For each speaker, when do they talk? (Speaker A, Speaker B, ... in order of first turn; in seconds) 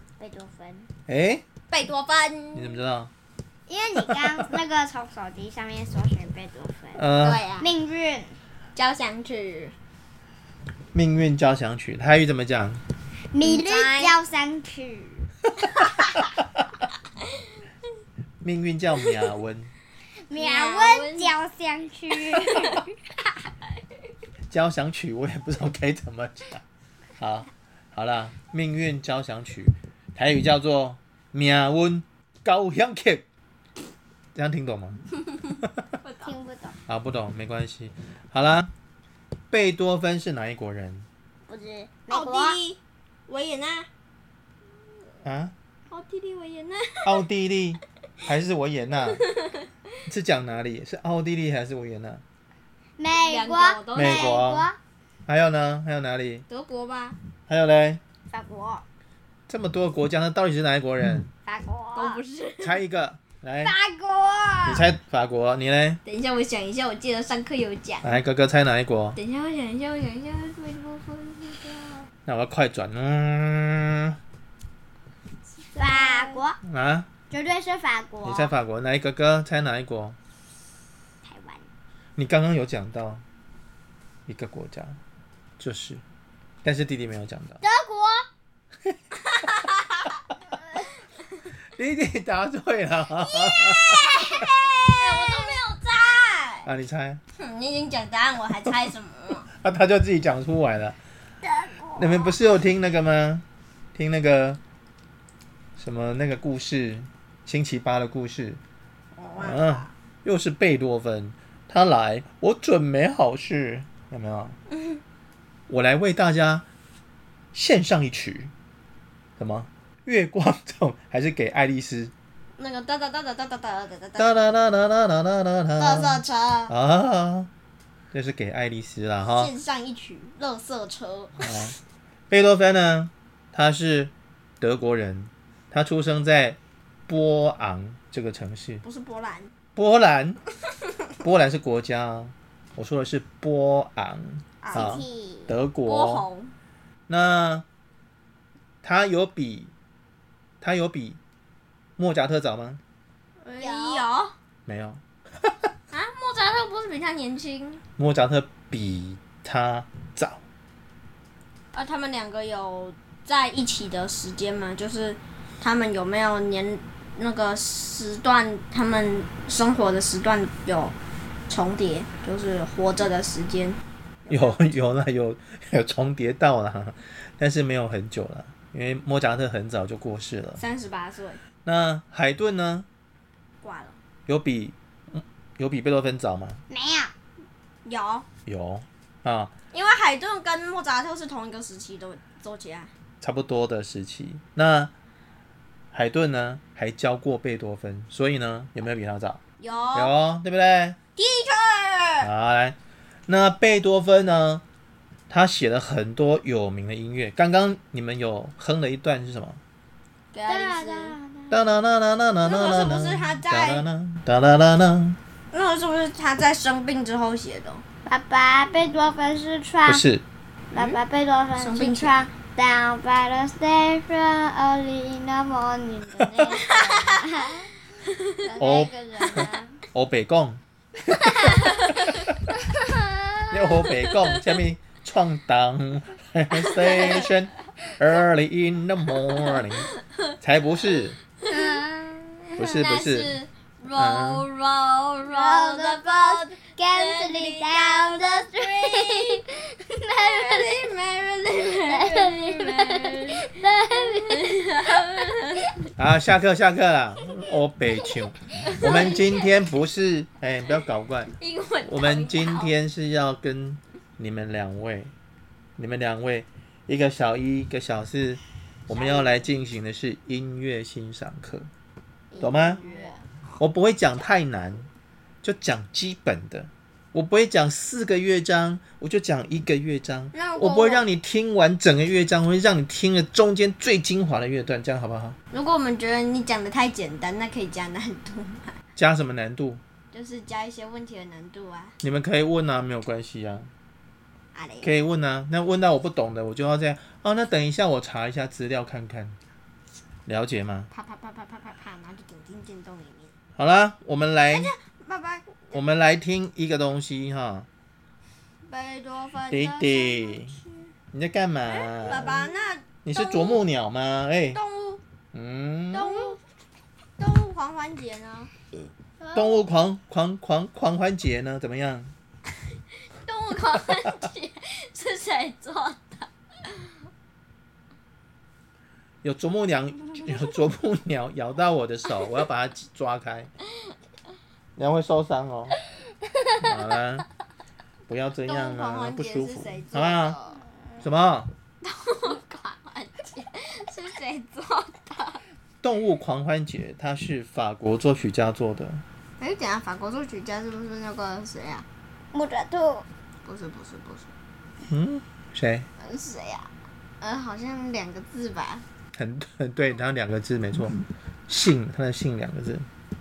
Speaker A: 0.2-0.9, 3.7-7.0, 7.6-8.4, 13.3-15.3, 20.3-22.9, 36.2-36.8, 41.5-42.6, 53.0-54.8, 58.3-58.8, 61.4-62.2, 63.6-64.9, 75.8-76.6, 77.3-78.5, 81.2-81.6, 87.6-88.2, 93.2-95.6, 101.4-102.3, 144.7-145.5, 153.6-154.1, 186.7-187.1, 210.5-211.7, 218.1-220.0, 220.7-227.7, 228.4-229.8, 231.2-231.8, 232.7-233.6, 241.5-242.6, 245.2-250.6, 251.9-254.4, 272.4-273.1, 319.2-319.7, 352.3-353.1
Speaker B: 1.1-1.4, 2.5-3.1, 6.9-7.4, 10.9-12.8, 18.4-19.7, 24.5-26.6, 27.2-33.2, 34.3-35.0, 36.9-38.7, 39.5-41.1, 45.2-45.5, 47.0-49.2, 50.0-52.2, 53.9-54.6, 55.3-56.4, 57.5-58.0, 59.5-61.3, 62.6-63.7, 64.6-66.0, 68.0-69.2, 72.2-74.2, 76.6-77.1, 78.2-80.2, 82.2-83.2, 84.3-85.0, 85.6-86.0, 86.6-87.6, 91.7-94.0, 96.6-97.2, 99.5-101.0, 102.0-103.4, 103.9-104.6, 105.8-108.6, 109.4-114.5, 115.7-116.7, 117.5-118.5, 119.4-122.1, 124.2-127.5, 128.1-129.5, 131.4-131.7, 132.3-138.8, 139.8-140.4, 141.2-146.2, 147.1-147.6, 148.8-149.7, 150.6-151.2, 152.0-152.8, 154.7-155.0, 158.0-160.4, 174.3-180.6, 181.6-182.8, 184.3-186.6, 188.4-189.5, 193.2-194.9, 195.9-199.4, 199.9-201.0, 202.2-202.8, 203.3-204.6, 205.3-209.6, 211.5-215.2, 219.8-220.2, 228.6-228.9, 229.9-230.6, 232.0-232.3, 233.5-239.9, 240.4-241.2, 242.6-243.3, 243.9-244.4, 256.0-265.1, 265.8-271.7, 272.4-272.8, 273.6-274.9, 275.4-285.4, 288.9-289.8, 292.0-293.7, 294.8-299.4, 300.3-300.9, 303.6-304.7, 305.7-307.7, 309.5-310.6, 311.1-312.4, 313.0-314.6, 315.3-316.3, 319.3-322.1, 329.2-333.5, 334.8-335.8, 336.6-337.2, 338.1-340.4, 341.0-341.5, 345.8-349.0, 354.9-355.9, 359.1-362.9
Speaker C: 1.7-2.8, 7.2-7.7, 8.8-9.7, 13.4-14.2, 20.3-21.4, 22.3-22.8, 36.0-36.4, 42.1-43.9, 45.9-47.2, 49.1-49.6, 53.1-54.4, 56.5-57.2, 61.9-62.8, 66.0-68.2, 69.2-72.1, 75.6-76.4, 89.3-90.0, 94.3-96.7, 97.4-99.5, 109.2-109.9, 122.6-124.6, 125.8-126.7, 129.2-131.7, 138.8-139.5, 144.6-144.9, 145.8-146.5, 153.4-154.3, 155.9-157.8, 161.7-170.9, 171.5-173.8, 174.3-174.7, 180.6-181.4, 183.6-184.0, 187.8-188.2, 189.7-192.9, 199.6-200.2, 201.2-202.3, 210.3-211.2, 212.4-213.8, 215.5-217.8, 220.7-221.0, 221.6-222.2, 226.5-228.4, 231.7-232.1, 236.8-237.2, 241.5-241.8, 242.6-249.4, 249.9-255.7, 258.6-259.4, 261.4-262.7, 268.9-269.5, 272.3-273.6, 280.3-281.1, 285.5-288.8, 290.1-291.9, 294.5-294.9, 300.9-303.3, 304.5-305.8, 308.6-310.9, 311.6-313.6, 314.5-315.0, 315.9-316.4, 317.2-318.5, 323.1-326.3, 338.4-340.6, 341.8-345.4, 349.4-351.9, 353.4-354.3, 356.0-356.7, 357.2-358.8